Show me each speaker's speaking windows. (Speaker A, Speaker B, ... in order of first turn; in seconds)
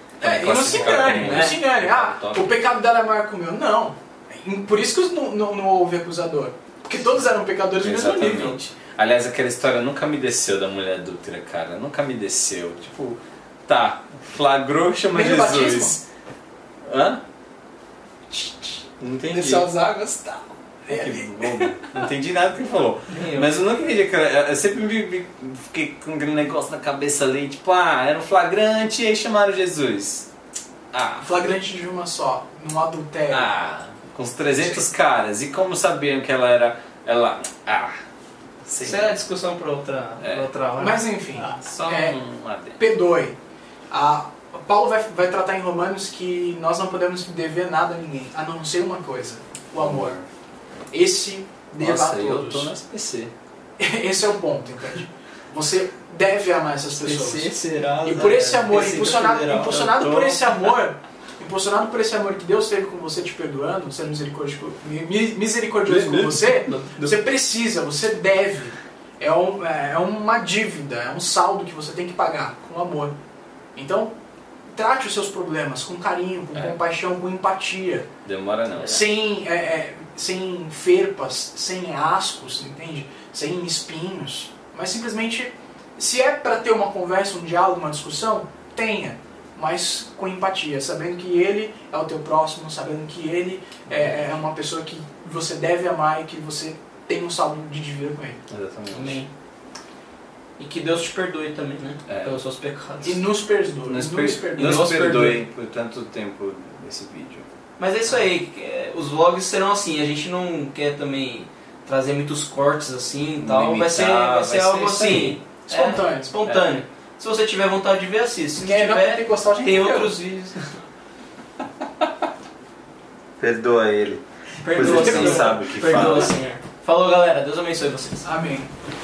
Speaker A: 0.2-8.6, 15.1-16.0, 18.3-22.1, 31.2-33.5, 40.8-42.2, 42.8-43.4, 43.9-50.1, 50.9-52.7, 53.8-57.5, 58.0-73.1, 73.7-74.1, 74.7-78.1, 78.9-98.4, 103.0-105.0, 115.7-116.3, 118.6-120.2, 124.7-125.6, 128.2-128.7
Speaker B: 0.2-2.5, 7.8-16.0, 16.9-17.2, 19.0-19.7, 20.9-30.3, 30.9-31.4, 33.3-38.0, 38.6-39.1, 40.2-40.5, 41.5-42.8, 49.8-50.2, 51.8-53.3, 59.8-60.6, 65.8-67.2, 78.2-79.0, 98.5-99.2, 102.1-102.3, 103.9-107.4, 113.4-115.4, 116.4-116.8, 123.4-126.3
Speaker C: 0.7-1.6, 23.1-23.6, 38.8-41.6, 56.9-60.0, 98.9-99.3, 100.6-103.2, 104.6-105.4, 107.8-120.7, 124.6-128.3